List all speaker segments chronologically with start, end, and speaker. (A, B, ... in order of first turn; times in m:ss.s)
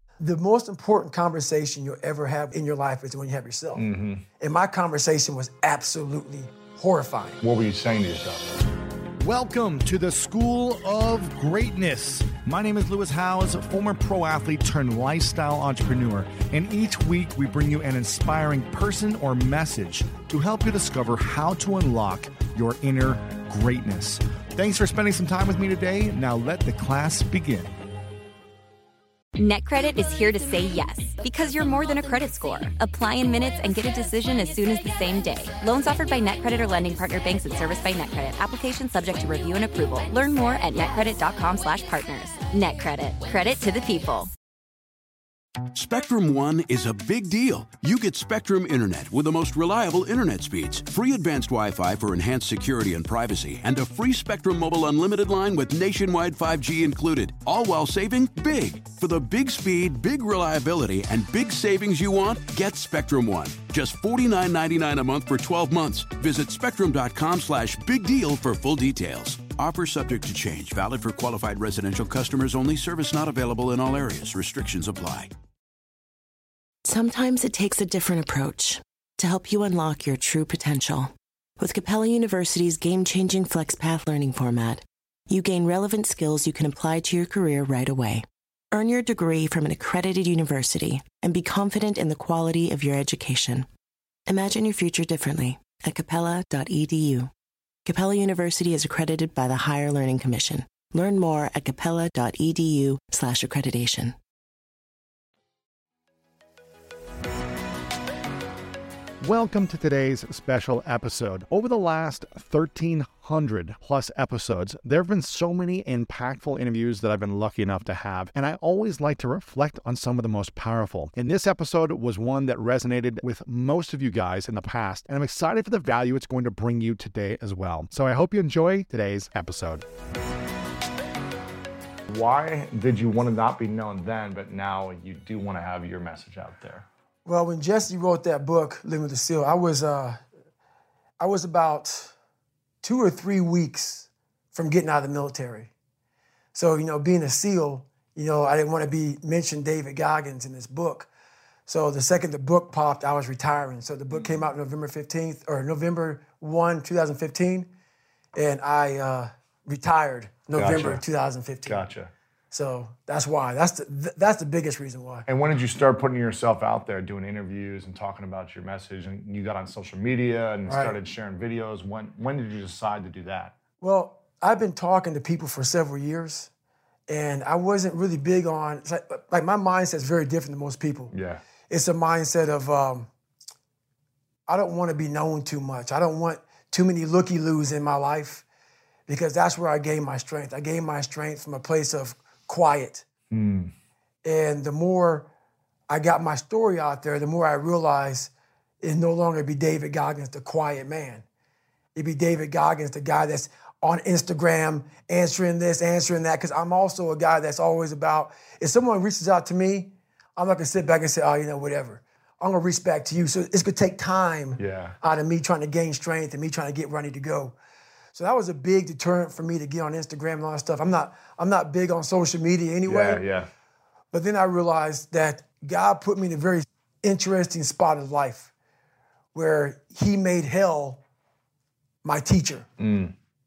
0:00.2-0:03.8 A
0:03.7-0:04.2 B
0:04.4-0:07.4 A
0:07.4-0:08.6 B
0:09.2-0:27.7 C
0:29.4-0:44.3 D
0:45.7-1:15.3 E
1:16.8-1:33.7 F
1:34.3-1:37.3 F
1:37.8-1:44.2 F
1:49.2-2:09.8 C
2:12.1-2:16.9 B
2:17.2-2:20.2 A
2:21.2-2:22.1 A
2:22.8-2:25.7 A
2:26.5-2:31.1 A
2:31.7-2:37.7 A
2:38.3-2:41.8 A
2:40.5-2:41.0 B
2:41.7-2:42.1 B
2:42.5-2:45.2 A
2:45.3-2:53.6 B
2:50.7-2:50.9 A
2:53.8-2:56.5 A
2:57.1-3:01.1 A
3:01.1-3:01.4 B
3:01.7-3:03.1 A
3:04.5-3:08.4 A
3:09.1-3:13.0 A
3:13.3-3:13.7 B
3:14.2-3:15.3 A
3:15.9-3:21.2 A
3:21.9-3:37.6 A
3:34.6-3:35.0 B
3:38.1-3:43.2 A
3:42.8-3:43.5 B
3:44.1-3:48.5 A
3:49.3-3:51.0 A
3:52.0-3:52.7 A
3:52.8-3:53.1 B